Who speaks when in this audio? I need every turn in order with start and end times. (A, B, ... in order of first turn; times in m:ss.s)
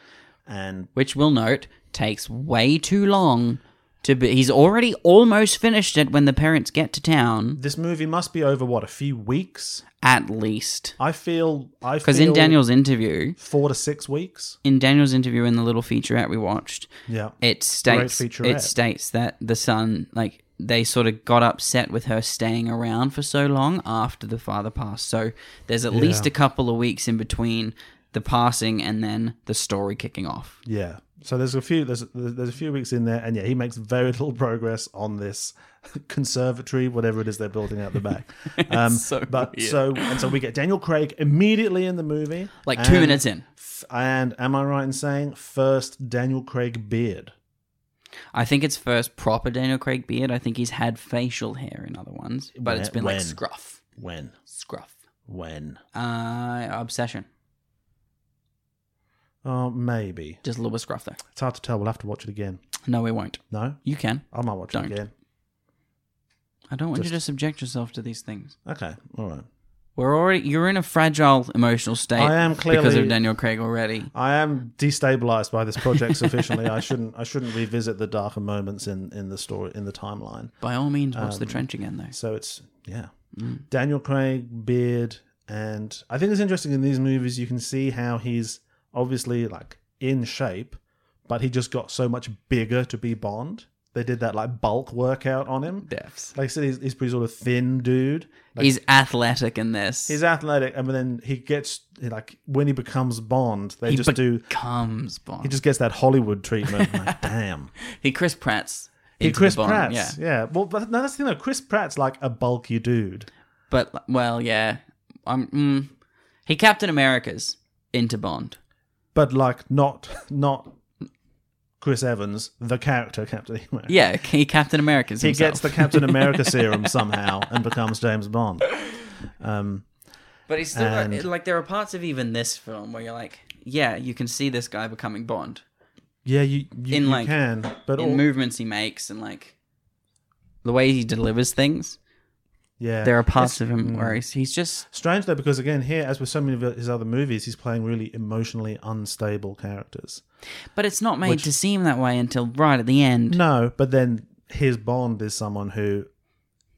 0:00.4-0:00.9 A
0:01.0-0:07.6 B
0:07.6-0:09.8 A
0:10.0-0:11.0 B
0:11.0-0:12.6 A
0:12.0-0:13.4 B
0:13.4-0:14.6 A
0:14.6-0:30.6 B
0:17.1-0:18.7 A
0:25.9-0:26.3 A
0:30.6-0:47.3 A
0:38.5-0:40.2 B
0:42.6-0:43.4 B
0:48.3-0:53.8 B
0:52.6-0:53.4 A
0:53.9-0:54.4 A
0:54.5-0:55.0 B
0:55.3-0:55.8 A
0:55.9-0:57.3 B
0:59.4-1:00.4 A
1:00.4-1:01.2 B
1:01.3-1:02.6 A
1:02.8-1:05.0 B
1:03.5-1:05.1 A
1:06.7-1:08.6 B
1:08.6-1:09.4 A
1:10.0-1:14.1 B
1:12.1-1:13.2 A
1:14.1-1:20.5 A
1:20.6-1:22.1 B
1:21.1-1:23.1 A
1:23.4-1:23.6 B
1:23.7-1:38.7 A
1:35.9-1:36.3 B
1:38.6-1:40.2 B
1:40.1-1:44.5 A
1:43.9-1:45.6 B
1:45.4-1:47.7 A
1:46.8-1:47.2 B
1:47.9-1:50.2 B
1:49.2-1:53.3 A
1:53.7-1:55.9 B
1:56.4-1:58.6 B
1:59.1-2:00.7 A
2:01.8-2:04.0 A
2:03.9-2:06.6 B
2:05.2-2:09.9 A
2:10.5-2:15.6 B
2:10.7-2:11.3 A
2:16.2-2:18.2 A
2:16.9-2:17.3 B
2:18.0-2:19.6 B
2:20.6-2:22.0 B
2:22.8-2:24.2 A
2:23.0-2:24.8 B
2:24.9-2:30.2 A
2:30.7-2:33.4 B
2:33.3-2:36.1 A